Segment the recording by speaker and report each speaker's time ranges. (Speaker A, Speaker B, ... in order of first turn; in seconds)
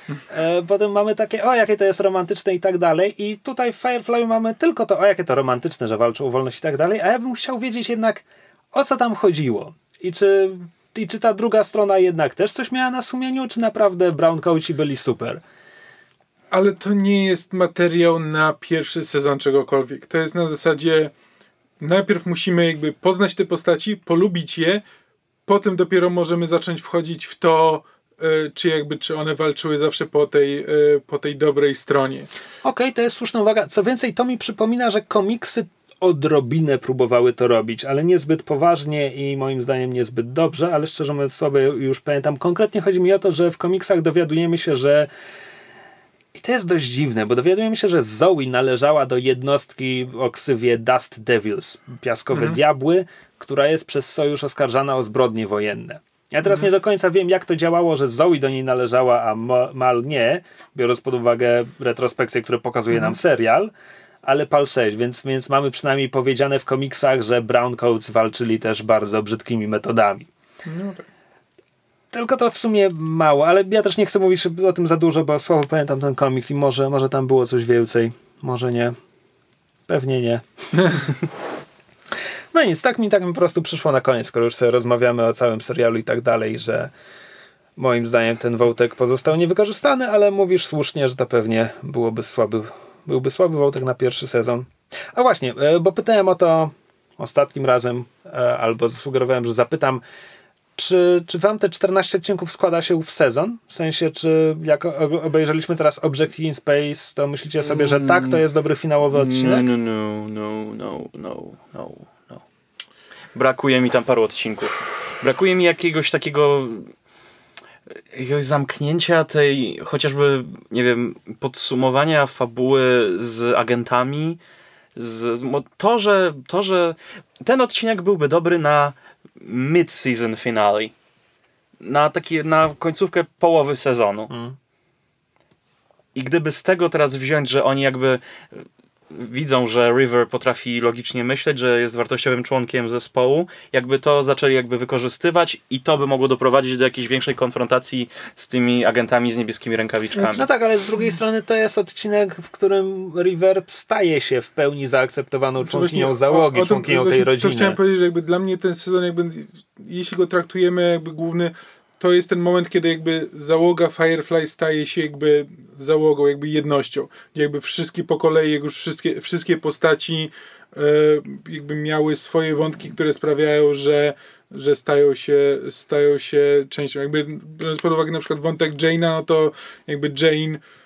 Speaker A: 0.3-15.4, 32.6-45.1, 46.3-63.7, 64.2-70.3, 72.1-79.0, 79.9-80.4, 82.5-86.9, 87.8-100.0, 100.8-109.7, 134.3-134.6, 150.3-157.8
Speaker B: 16.5-21.1, 21.8-24.8, 25.5-32.3, 52.3-52.6, 70.7-71.1, 155.6-180.6
Speaker C: 107.7-108.4, 109.1-112.4, 113.3-116.9, 118.1-124.4, 125.0-130.9, 131.8-134.3, 136.2-150.5